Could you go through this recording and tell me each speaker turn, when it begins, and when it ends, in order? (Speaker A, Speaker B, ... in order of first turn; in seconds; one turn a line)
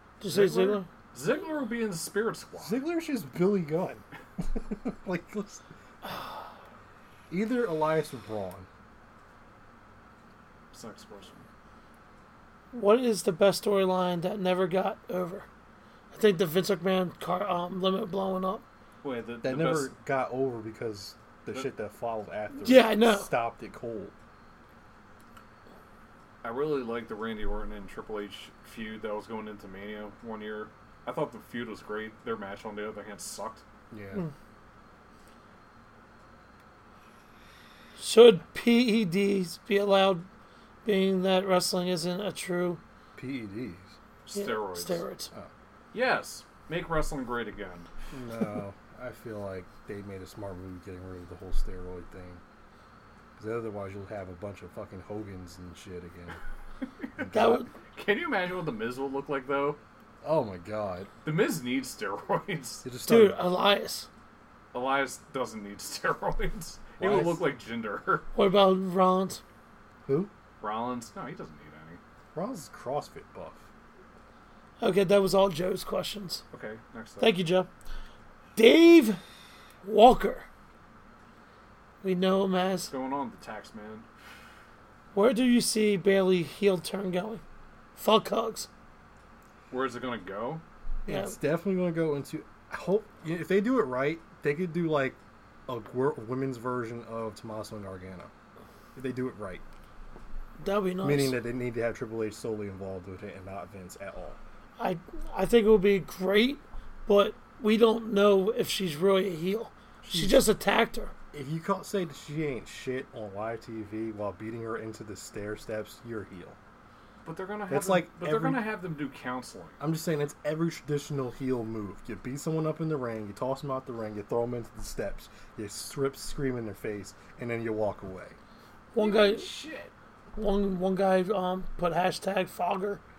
Speaker A: 0.2-0.9
Speaker B: 0.3-2.8
Speaker C: 2.6-5.7
Speaker C: 7.3-8.7
Speaker B: 10.7-11.4
Speaker A: 12.7-15.5
Speaker A: 16.1-18.6
Speaker B: 19.0-19.9
Speaker C: 19.4-24.1
Speaker A: 22.6-23.3
Speaker B: 26.4-33.6
Speaker C: 33.9-34.2
Speaker A: 38.0-40.3
Speaker A: 40.8-42.8
Speaker C: 43.2-44.0
Speaker B: 44.2-45.0
Speaker A: 44.3-45.3
Speaker B: 45.9-47.9
Speaker C: 48.1-52.4
Speaker C: 53.4-56.4
Speaker B: 57.0-59.8
Speaker C: 57.2-57.7
Speaker A: 57.3-57.7
Speaker C: 60.2-61.1
Speaker B: 61.2-62.9
Speaker C: 62.8-63.4
Speaker A: 63.0-64.1
Speaker B: 64.7-68.3
Speaker C: 67.0-67.4
Speaker A: 68.3-69.4
Speaker C: 70.0-70.3
Speaker B: 70.6-72.0
Speaker C: 72.3-73.7
Speaker A: 74.8-76.4
Speaker B: 76.5-77.4
Speaker A: 77.2-77.7
Speaker A: 78.6-79.2
Speaker A: 79.8-80.5
Speaker A: 82.0-82.9
Speaker B: 82.9-84.1
Speaker A: 85.1-87.4
Speaker A: 88.0-88.7
Speaker B: 89.7-90.6
Speaker A: 91.1-91.3
Speaker C: 91.1-98.3
Speaker C: 98.9-99.6
Speaker A: 100.6-101.4
Speaker C: 101.0-104.4
Speaker A: 104.8-111.1
Speaker C: 110.0-110.5
Speaker C: 111.3-116.6
Speaker B: 117.2-119.8
Speaker C: 117.7-118.7
Speaker C: 119.8-128.4
Speaker A: 128.9-129.6
Speaker B: 129.0-129.9
Speaker A: 130.3-133.0